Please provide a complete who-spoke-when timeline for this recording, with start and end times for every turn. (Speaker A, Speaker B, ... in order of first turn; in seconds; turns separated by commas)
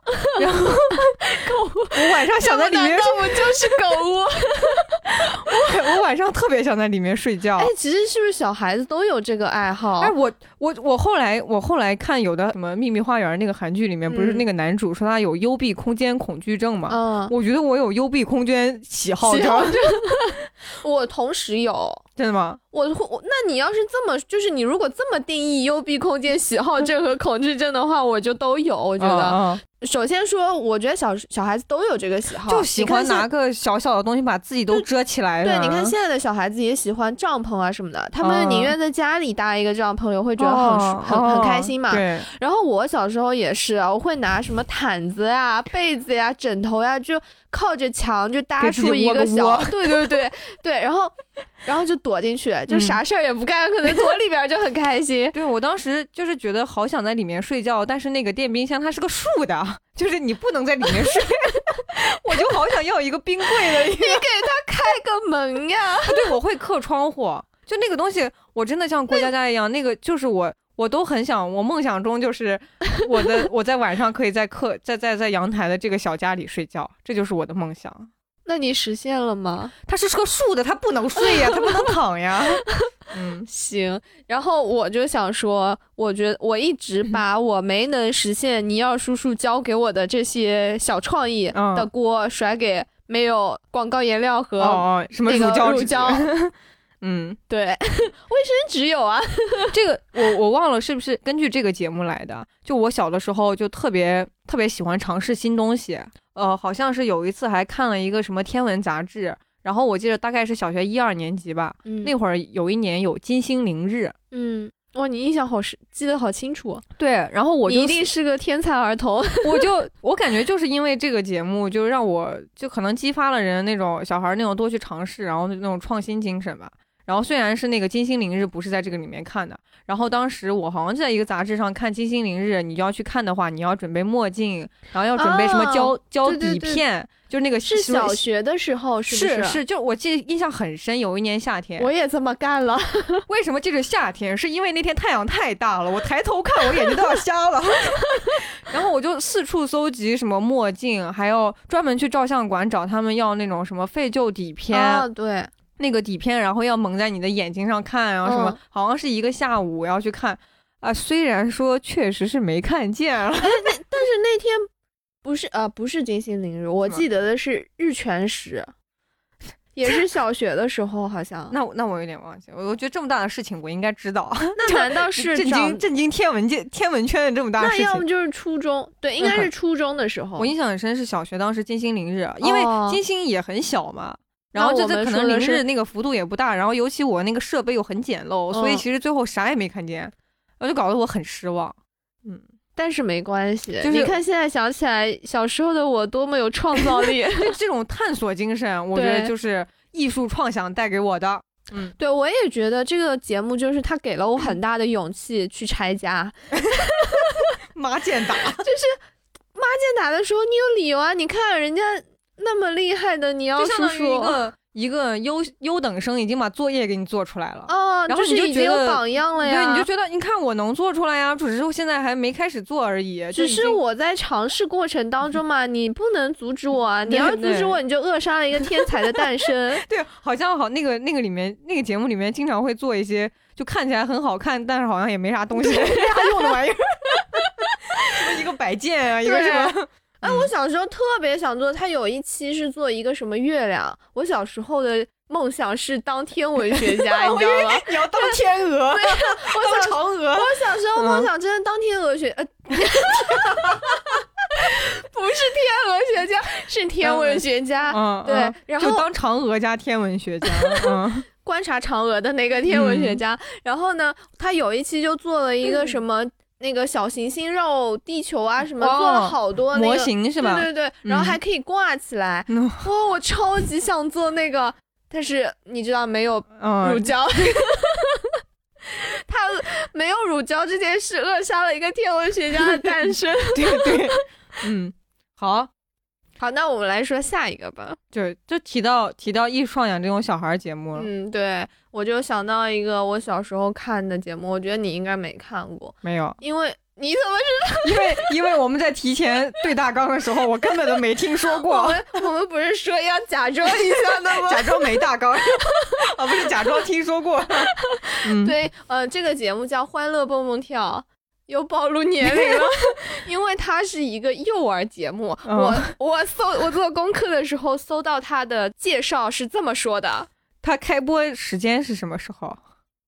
Speaker A: 0.2-4.9, Speaker B: 0.3-1.1, Speaker B: 1.9-3.7, Speaker B: 5.1-7.7, Speaker A: 7.6-10.1, Speaker B: 10.0-19.9, Speaker A: 14.1-14.4, Speaker A: 16.9-17.3, Speaker A: 19.2-22.0, Speaker B: 22.2-22.6, Speaker A: 22.7-33.3, Speaker B: 29.0-29.6, Speaker B: 32.5-35.9, Speaker A: 35.4-55.3, Speaker B: 38.2-38.7, Speaker B: 40.4-42.3, Speaker B: 48.6-50.2, Speaker B: 52.7-53.0, Speaker B: 55.3-64.2, Speaker A: 63.5-66.3, Speaker B: 66.0-78.1, Speaker A: 78.5-79.7, Speaker B: 79.8-83.5, Speaker A: 81.3-81.7, Speaker A: 83.5-96.3, Speaker B: 91.5-91.9, Speaker B: 94.6-97.4, Speaker A: 97.5-99.7, Speaker B: 99.7-114.1, Speaker A: 111.8-112.1, Speaker A: 114.3-116.8, Speaker B: 117.0-118.1, Speaker A: 117.7-119.7, Speaker B: 119.4-138.2, Speaker A: 135.2-136.8, Speaker A: 137.6-139.6, Speaker B: 139.1-141.9, Speaker A: 141.8-143.2, Speaker B: 143.3-155.1, Speaker A: 154.7-155.5, Speaker B: 155.8-163.7, Speaker A: 158.2-158.6, Speaker A: 163.4-164.7, Speaker A: 165.2-168.7, Speaker A: 169.7-171.6, Speaker B: 171.5-178.0, Speaker A: 174.6-175.8, Speaker A: 177.6-180.5, Speaker B: 179.2-179.5, Speaker B: 180.4-192.4, Speaker A: 182.4-183.0, Speaker A: 184.5-185.6, Speaker A: 188.5-188.8, Speaker A: 192.8-197.5, Speaker B: 193.8-194.1, Speaker B: 196.8-201.9, Speaker A: 198.9-199.3, Speaker A: 202.0-207.3, Speaker B: 207.7-208.6, Speaker A: 208.6-209.0, Speaker A: 209.5-214.4, Speaker B: 213.6-223.8, Speaker A: 217.7-219.9, Speaker A: 223.3-229.8, Speaker B: 227.1-227.8, Speaker B: 229.8-237.4, Speaker A: 235.6-236.6, Speaker B: 238.1-240.5, Speaker A: 239.2-254.0, Speaker B: 246.7-251.3, Speaker B: 252.8-253.7, Speaker A: 254.6-259.1, Speaker B: 257.0-261.3, Speaker A: 260.4-278.3, Speaker B: 262.7-263.2, Speaker B: 268.8-271.4, Speaker B: 272.5-272.8, Speaker B: 276.6-277.1, Speaker A: 278.9-284.2, Speaker B: 283.5-285.7, Speaker A: 286.4-288.0, Speaker B: 288.1-291.1, Speaker A: 290.9-298.3, Speaker B: 296.0-296.4, Speaker B: 297.8-302.2, Speaker A: 301.5-305.1, Speaker B: 303.6-307.7, Speaker A: 305.6-306.4, Speaker A: 307.8-320.3, Speaker B: 308.2-308.5, Speaker B: 312.2-312.9, Speaker B: 315.4-315.9, Speaker B: 320.6-322.6